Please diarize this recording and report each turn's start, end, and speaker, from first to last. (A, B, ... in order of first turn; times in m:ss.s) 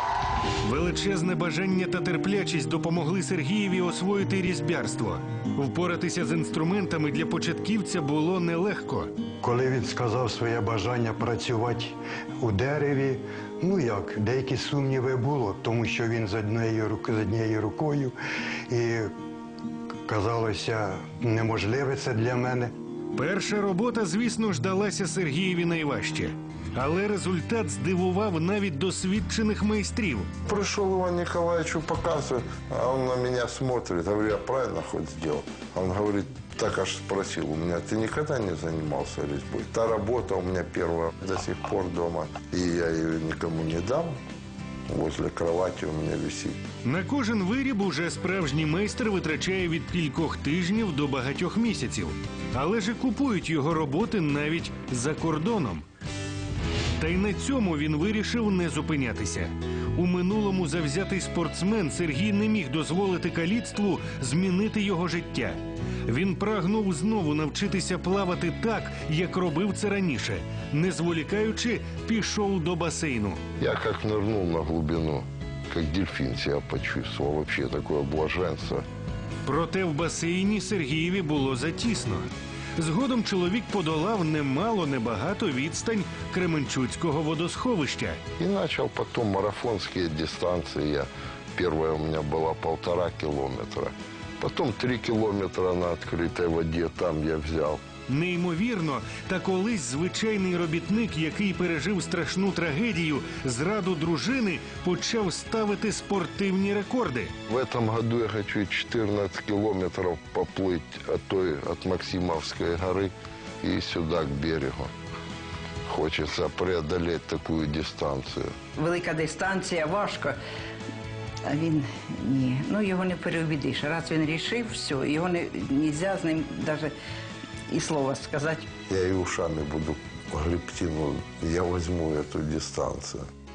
0:00.6-0:09.1 A
0:09.4-0:18.2 B
0:18.7-0:19.1 B
0:20.1-0:22.7 B
0:23.2-0:30.3 A
0:30.5-0:44.1 C
0:44.9-0:46.6 C
0:46.8-0:55.9 A
0:57.0-1:13.4 A
1:13.6-1:18.8 C
1:19.5-1:28.2 A
1:28.4-1:37.8 C
1:38.1-1:47.3 A
1:47.5-1:54.9 C
1:55.9-1:58.5 C
1:58.8-2:00.4 D
2:01.4-2:07.0 D
2:07.7-2:08.7 D
2:08.9-2:13.3 C